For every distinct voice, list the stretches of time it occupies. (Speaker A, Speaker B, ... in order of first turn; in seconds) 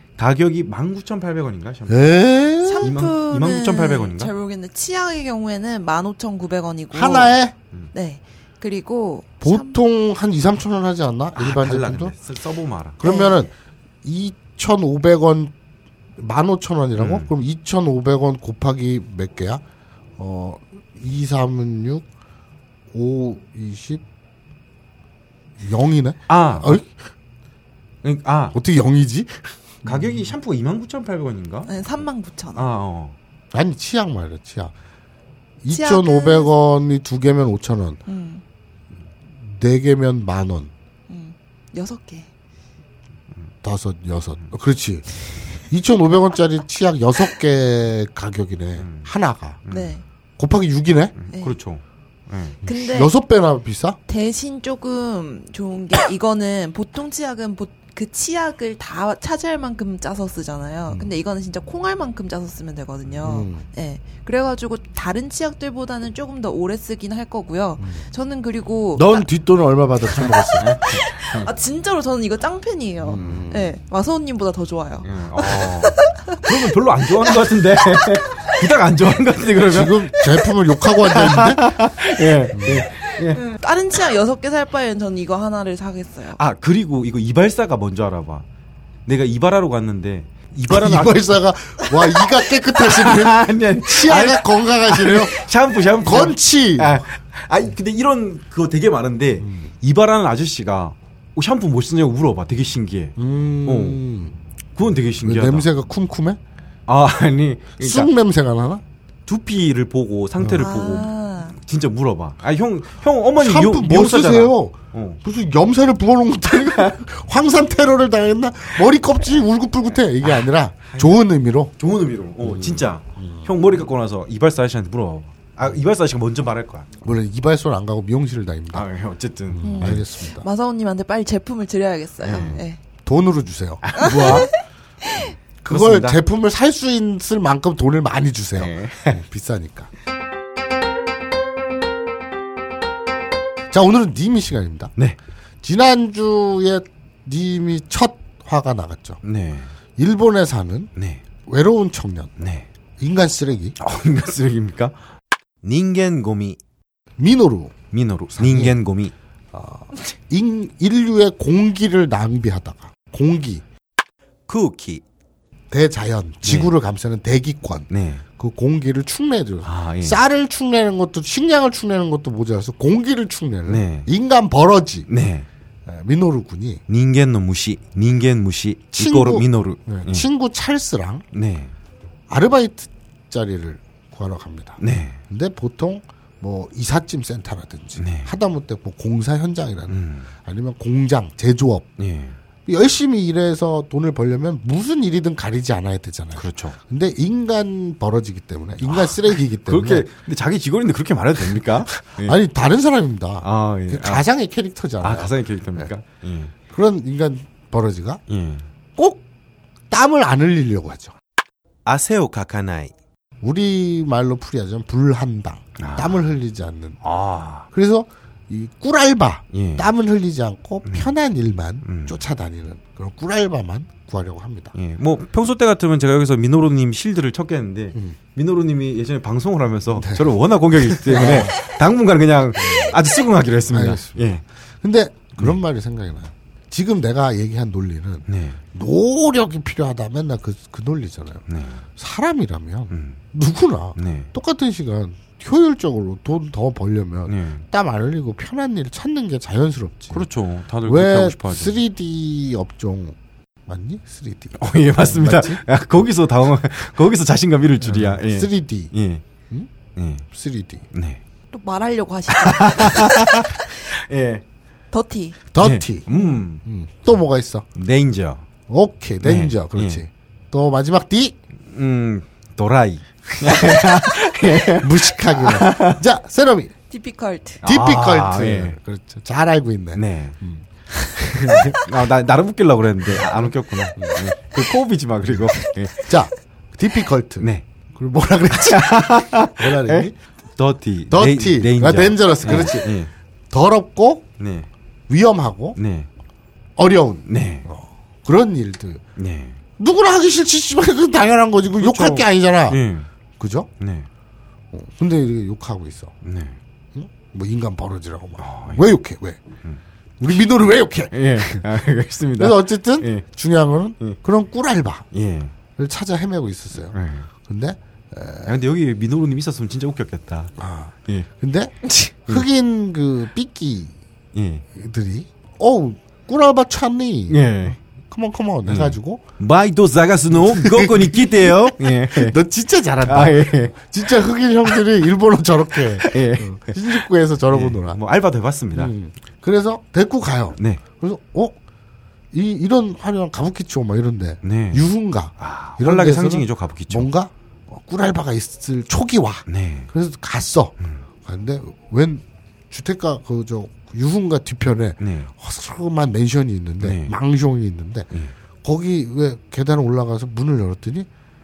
Speaker A: 0.2-2.1, 2.8-4.3, 11.3-13.0, 16.9-17.3, 26.3-26.8, 28.0-28.6, 29.8-31.7, 32.5-33.1, 48.8-49.1, 49.6-50.0, 51.2-52.6, 70.6-71.5, 73.1-73.4, 75.0-80.1, 81.0-83.4, 86.4-88.4, 89.0-103.1, 103.7-104.0, 104.8-105.7, 106.9-108.1, 109.3-115.2, 120.2-121.2, 121.8-126.9, 128.7-130.0, 132.2-132.6, 133.8-134.5, 135.7-136.2, 138.6-139.2, 149.2-149.7, 150.9-151.2, 152.4-152.7, 153.8-154.9, 155.6-156.6, 157.9-159.1, 164.5-165.0, 166.4-166.7, 167.9-168.2, 169.6-170.2, 173.7-174.1, 175.1-175.5, 176.9-180.2, 181.3-181.7, 184.8-185.2, 188.0-188.3, 189.9-190.3, 192.0-192.4, 196.3-196.8, 198.8-202.4, 203.4-204.2, 205.0-206.5, 208.3-208.7, 211.8-212.9, 215.8-216.3, 217.0-217.7, 219.5-219.9, 220.8-221.1, 221.8-222.2, 224.7-234.4, 238.3-238.6, 241.5-241.8, 242.9-243.2, 243.9-244.3, 247.3-247.6, 250.1-251.8, 254.6-259.2, 259.9-260.2, 260.9-261.2, 262.3-264.4, 265.6-266.6, 267.7-268.4, 269.2-270.0, 271.7-276.0, 277.6-278.8, 279.9-280.4, 281.5-286.1, 288.5-293.1, 294.4-294.7, 295.8-296.1, 297.3-297.7, 299.2-299.6, 301.8-303.1, 303.8-304.1, 306.2-306.6, 308.4-308.9, 311.1-313.2, 315.1-315.5, 316.9-317.3, 318.4-320.5, 324.3-324.6, 327.3-327.8, 328.6-332.4, 333.0-333.9, 335.9-338.9, 344.4-347.1, 349.5-349.9, 355.0-355.3, 356.8-357.1
Speaker B: 1.9-3.0, 6.9-7.5, 9.4-12.1, 13.0-13.5, 14.0-15.5, 16.2-19.6, 20.2-22.0, 22.9-24.0, 25.6-26.9, 28.5-30.1, 33.5-34.7, 35.6-38.0, 39.4-40.7, 43.6-45.1, 45.6-49.6, 50.4-51.1, 52.6-54.0, 63.2-63.6, 67.8-68.0, 69.0-70.7, 73.0-73.7, 79.7-81.7, 82.5-82.9, 90.7-95.4, 96.0-97.0, 99.4-99.7, 103.2-104.4, 105.2-106.4, 107.8-108.8, 110.4-110.7, 113.4-121.7, 122.4-123.5, 127.0-128.9, 129.5-130.4, 132.3-134.4, 135.6-139.9, 143.7-144.9, 145.6-149.2, 150.0-150.9, 151.4-152.3, 153.0-153.7, 157.2-157.8, 158.3-158.8, 159.5-163.6, 165.7-175.1, 175.8-176.8, 178.9-181.2, 182.3-191.9, 192.7-200.1, 202.2-205.9, 206.7-208.2, 208.9-209.2, 209.9-211.1, 213.4-217.0, 217.7-224.7, 229.9-230.3, 230.8-231.6, 232.6-232.9, 233.7-241.4, 242.0-250.3, 250.8-255.6, 257.8-258.9, 260.3-260.9, 265.5-266.1, 266.6-267.6, 268.7-271.4, 273.4-273.8, 274.7-276.7, 277.6-281.8, 283.9-284.3, 286.0-290.1, 291.1-293.0, 293.5-294.2, 295.1-295.8, 296.8-299.0, 299.8-302.8, 303.4-303.7, 304.7-306.1, 306.9-309.4, 310.2-311.6, 312.4-315.1, 315.8-318.5, 320.6-323.9, 324.7-329.2, 330.3-338.0, 338.7-341.6, 342.3-358.1, 358.6-361.1
Speaker C: 2.6-7.3, 7.9-9.8, 13.0-13.4, 31.7-32.7, 35.7-36.5, 38.1-38.4, 41.1-42.3, 49.7-50.0, 52.6-53.1, 54.1-69.2, 70.8-76.5, 83.3-86.4, 110.6-111.6, 129.6-132.8, 134.0-135.3, 261.5-263.7, 264.9-265.4, 276.9-277.6